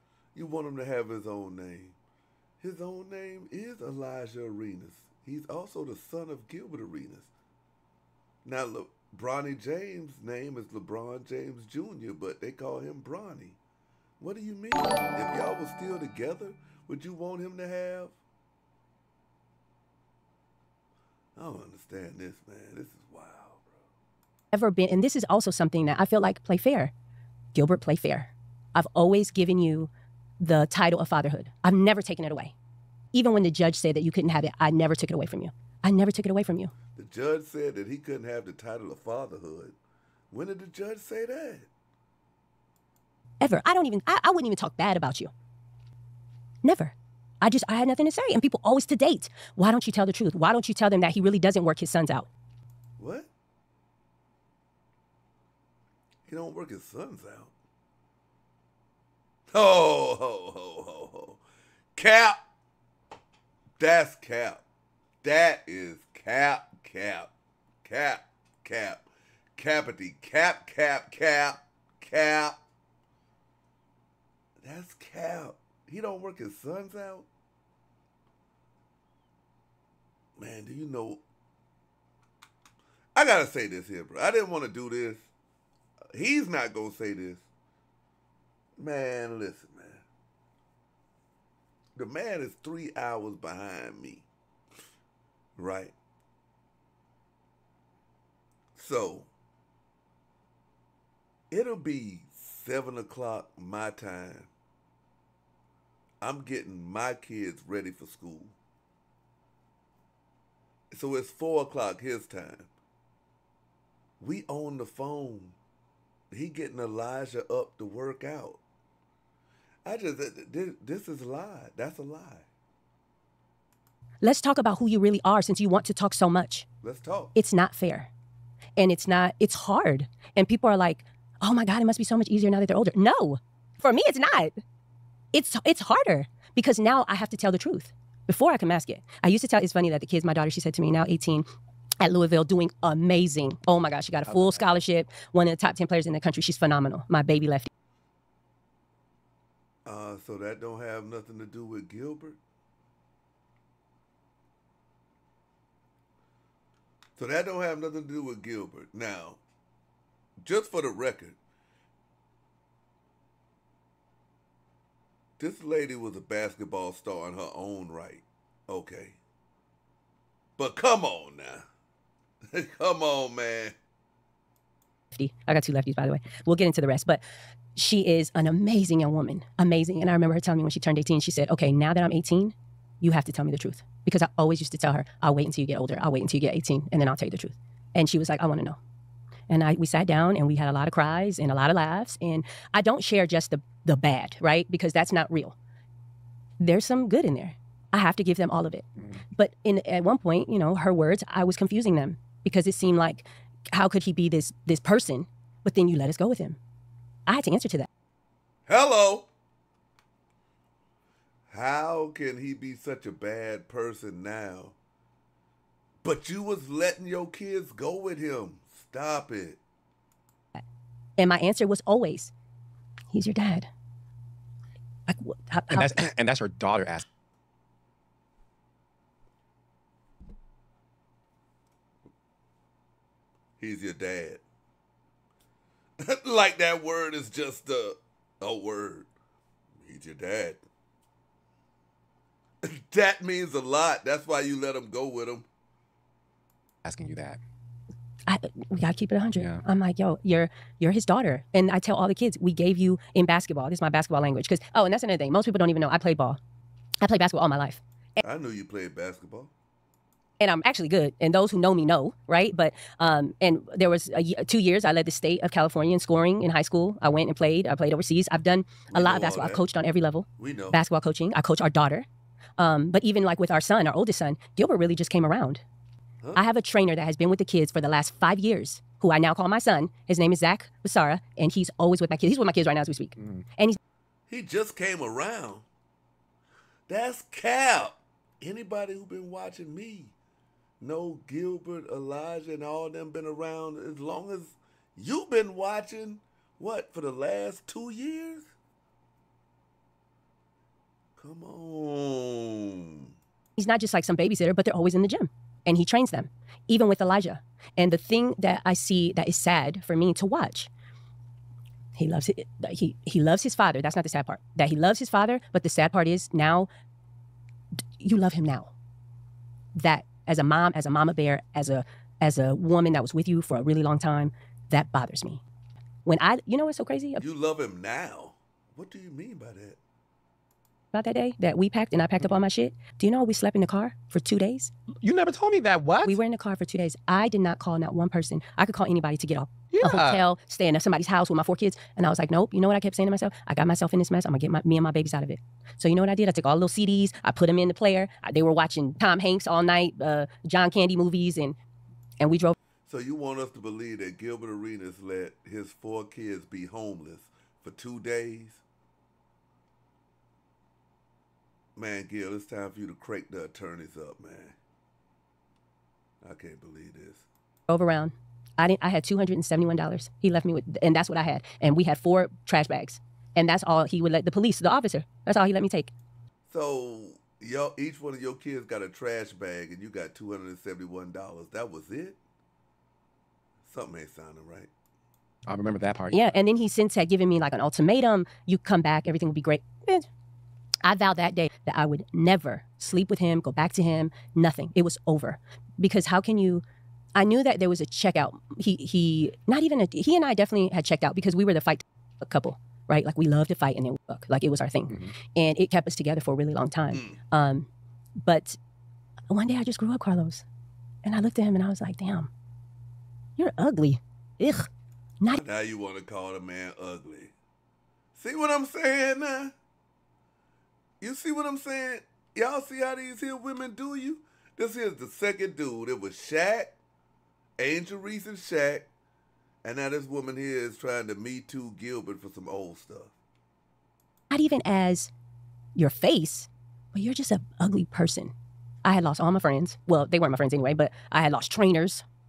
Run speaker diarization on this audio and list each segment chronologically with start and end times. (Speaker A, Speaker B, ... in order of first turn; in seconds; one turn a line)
Speaker A: 0.3-2.0
Speaker A: 2.6-7.3
Speaker A: 8.4-13.6
Speaker A: 14.2-18.2
Speaker A: 21.4-23.8
Speaker B: 24.5-26.9
Speaker B: 27.5-32.5
Speaker B: 33.1-36.7
Speaker A: 36.9-39.8
Speaker A: 40.3-41.7
Speaker B: 43.4-45.3
Speaker B: 46.6-52.3
Speaker A: 53.0-53.3
Speaker A: 56.2-57.5
Speaker A: 59.5-61.4
Speaker A: 61.9-62.4
Speaker A: 63.8-64.6
Speaker A: 65.2-67.3
Speaker A: 67.8-72.6
Speaker A: 74.6-77.3
Speaker A: 80.4-81.2
Speaker A: 83.1-85.3
Speaker A: 86.1-87.4
Speaker A: 88.8-90.0
Speaker A: 92.0-94.3
Speaker A: 95.6-95.9
Speaker A: 98.7-99.3
Speaker A: 101.5-104.5
Speaker A: 106.2-108.5
Speaker A: 110.9-112.7
Speaker A: 114.2-115.5
Speaker A: 116.3-118.6
Speaker A: 119.8-122.5
Speaker B: 124.2-126.7
Speaker A: 126.8-127.3
Speaker B: 127.3-128.1
Speaker B: 128.8-134.6
Speaker B: 135.3-141.5
Speaker B: 142.0-147.7
Speaker A: 149.8-152.4
Speaker A: 157.2-159.4
Speaker A: 160.4-161.4
Speaker A: 165.4-169.2
Speaker A: 170.6-171.7
Speaker A: 172.5-173.8
Speaker B: 175.1-177.2
Speaker B: 177.7-188.8
Speaker B: 189.5-195.6
Speaker B: 196.6-206.6
Speaker B: 207.3-207.9
Speaker A: 208.7-209.3
Speaker A: 211.5-214.8
Speaker A: 216.0-219.6
Speaker B: 221.2-222.3
Speaker B: 223.1-223.7
Speaker B: 225.1-226.1
Speaker C: 225.7-227.1
Speaker A: 233.6-234.4
Speaker A: 236.0-239.1
Speaker A: 239.8-240.6
Speaker A: 242.6-245.5
Speaker C: 246.8-247.4
Speaker B: 248.3-256.4
Speaker C: 249.4-249.6
Speaker B: 257.0-258.2
Speaker A: 258.2-259.5
Speaker B: 260.4-272.1
Speaker A: 268.9-269.6
Speaker A: 270.4-270.8
Speaker B: 272.6-275.6
Speaker B: 276.3-283.8
Speaker A: 284.3-285.7
Speaker A: 286.9-290.1
Speaker A: 290.8-298.5
Speaker A: 301.1-303.1
Speaker B: 303.6-310.7
Speaker B: 311.9-316.7
Speaker B: 318.0-318.7
Speaker B: 319.8-325.4
Speaker B: 326.0-327.2
Speaker A: 327.2-329.8
Speaker B: 330.9-334.7
Speaker C: 335.0-336.2
Speaker B: 336.0-351.6
Speaker C: 339.7-340.2
Speaker B: 352.2-352.6
Speaker A: 352.9-358.6
Speaker A: 361.8-364.6
Speaker A: 366.2-367.3
Speaker B: 367.7-375.9
Speaker A: 376.5-382.2
Speaker A: 383.6-384.7
Speaker C: 385.5-386.2
Speaker B: 386.1-390.1
Speaker B: 390.8-396.6
Speaker B: 397.1-407.7
Speaker B: 408.2-408.6
Speaker B: 409.3-410.4
Speaker B: 411.0-412.3
Speaker B: 413.4-414.7
Speaker A: 415.3-417.3
Speaker A: 418.1-419.6
Speaker A: 421.0-426.8
Speaker A: 427.6-428.9
Speaker A: 429.6-433.1
Speaker B: 434.3-435.1
Speaker B: 435.8-438.3
Speaker B: 438.8-442.0